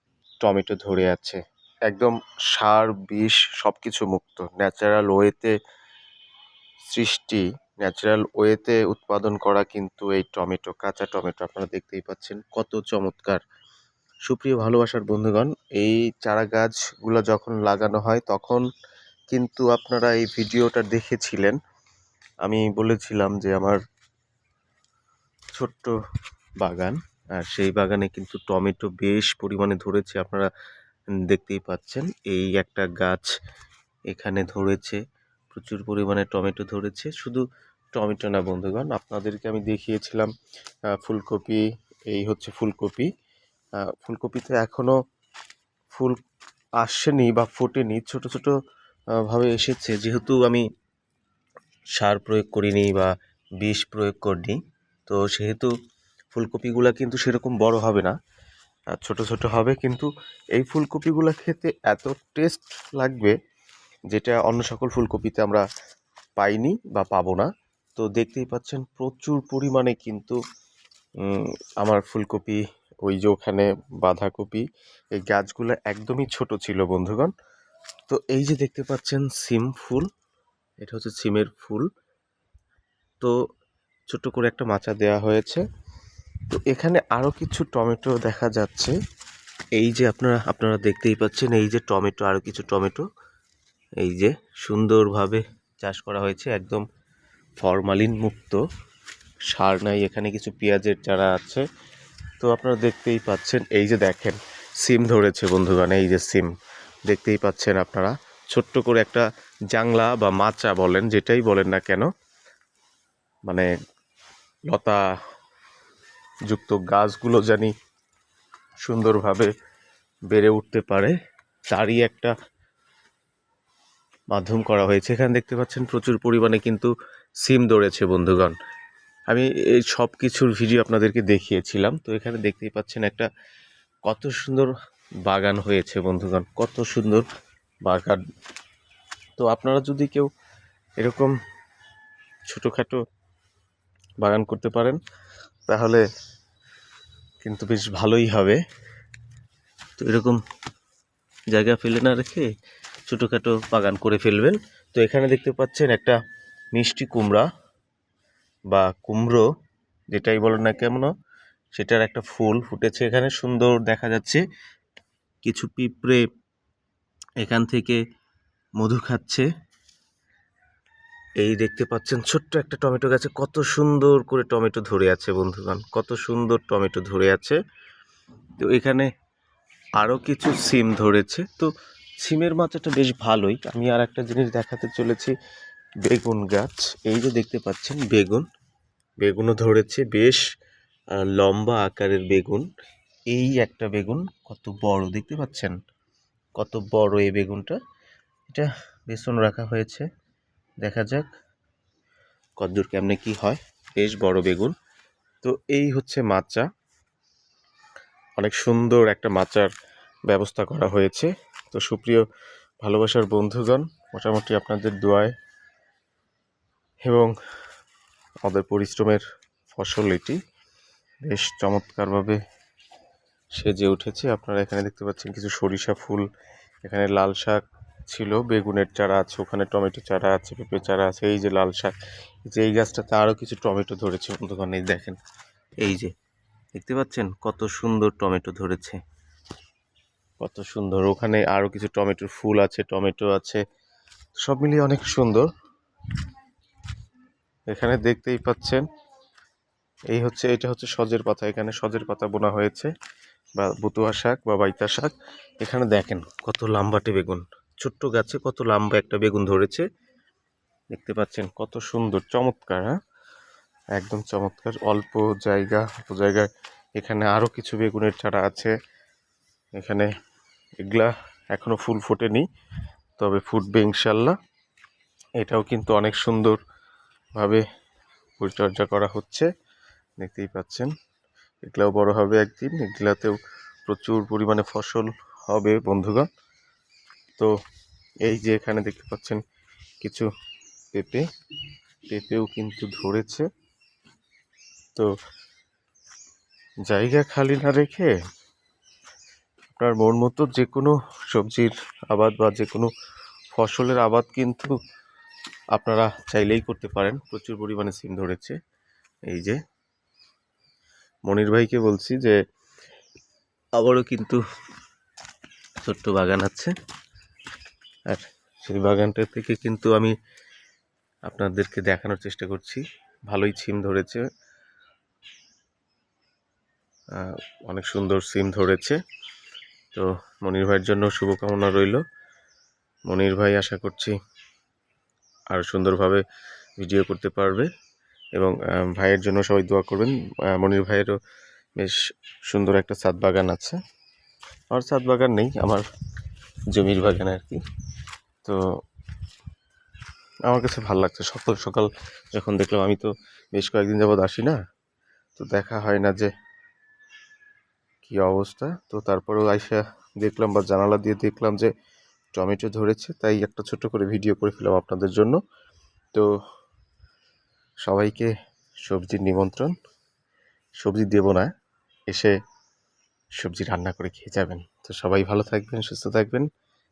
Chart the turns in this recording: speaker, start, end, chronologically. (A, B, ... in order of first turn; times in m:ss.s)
0:00.4-0:05.5 A
0:06.9-0:13.4 A
0:14.3-0:18.6 A
0:19.3-0:21.6 A
0:22.4-0:23.8 A
0:25.6-0:25.9 A
0:26.6-0:30.5 A
0:31.3-0:33.3 A
0:34.1-0:35.0 A
0:35.5-0:37.4 A
0:38.0-0:40.3 A
0:40.9-0:43.1 A
0:43.9-0:45.0 A
0:45.9-0:46.2 A
0:46.8-0:48.5 A
0:49.2-0:50.6 A
0:52.0-0:55.7 A
0:56.3-0:58.2 A
0:58.9-1:03.3 A
1:04.1-1:05.6 A
1:06.4-1:10.4 A
1:11.2-1:14.6 A
1:15.2-1:17.3 A
1:18.1-1:20.1 A
1:20.8-1:21.8 A
1:24.1-1:25.6 A
1:26.5-1:28.9 A
1:29.8-1:33.0 A
1:34.0-1:36.8 A
1:37.6-1:38.6 A
1:39.5-1:41.6 A
1:42.4-1:46.5 A
1:47.1-1:52.1 A
1:54.7-1:55.0 A
1:56.5-1:57.7 A
1:58.8-1:59.5 A
2:00.3-2:01.1 A
2:01.7-2:02.3 A
2:04.3-2:06.9 A
2:07.4-2:08.6 A
2:09.3-2:13.3 A
2:14.0-2:14.7 A
2:15.3-2:17.2 A
2:17.8-2:18.2 A
2:19.4-2:20.3 A
2:21.0-2:21.3 A
2:22.5-2:23.0 A
2:24.2-2:25.0 A
2:25.7-2:26.0 A
2:27.4-2:28.6 A
2:30.0-2:30.4 A
2:31.5-2:32.5 A
2:33.1-2:36.2 A
2:36.7-2:37.5 A
2:38.7-2:39.5 A
2:40.1-2:41.1 A
2:41.7-2:44.4 A
2:45.4-2:46.2 A
2:47.4-2:48.0 A
2:48.8-2:49.5 A
2:51.4-2:57.6 A
2:58.6-2:59.1 A
3:00.0-3:01.7 A
3:02.2-3:05.3 A
3:06.0-3:08.4 A
3:09.2-3:10.4 A
3:11.2-3:12.7 A
3:13.3-3:15.8 A
3:16.6-3:17.8 A
3:18.5-3:20.1 A
3:20.8-3:21.3 A
3:22.6-3:24.7 A
3:25.4-3:26.6 A
3:28.4-3:29.7 A
3:30.3-3:32.2 A
3:32.8-3:35.3 A
3:37.0-3:37.3 A
3:38.4-3:40.4 A
3:41.2-3:42.4 A
3:43.6-3:46.2 A
3:46.8-3:51.9 A
3:52.5-3:55.2 A
3:55.8-3:56.1 A
3:56.8-3:59.0 A
4:00.4-4:03.6 A
4:04.4-4:05.5 A
4:07.7-4:08.8 A
4:10.1-4:12.9 A
4:13.6-4:19.8 A
4:20.9-4:23.0 A
4:24.0-4:28.7 A
4:29.8-4:30.1 A
4:30.8-4:32.5 A
4:33.2-4:34.4 A
4:35.4-4:36.6 A
4:37.4-4:37.6 A
4:38.4-4:39.5 A
4:40.2-4:40.9 A
4:41.6-4:46.3 A
4:48.2-4:49.4 A
4:50.0-4:50.3 A
4:50.9-4:51.2 A
4:52.1-4:53.5 A
4:56.9-4:58.1 A
4:59.7-5:02.9 A
5:03.5-5:04.7 A
5:05.7-5:08.6 A
5:09.3-5:09.6 A
5:11.3-5:12.4 A
5:13.8-5:14.4 A
5:15.8-5:16.7 A
5:18.1-5:20.1 A
5:21.3-5:24.2 A
5:27.2-5:29.0 A
5:29.9-5:32.0 A
5:33.1-5:34.1 A
5:35.5-5:36.2 A
5:36.8-5:37.7 A
5:38.4-5:41.2 A
5:42.5-5:43.8 A
5:44.7-5:45.8 A
5:46.7-5:47.6 A
5:50.5-5:54.6 A
5:55.4-5:56.3 A
5:58.0-6:01.7 A
6:02.3-6:05.4 A
6:07.8-6:08.3 A
6:08.8-6:09.7 A
6:10.8-6:11.5 A
6:13.4-6:16.5 A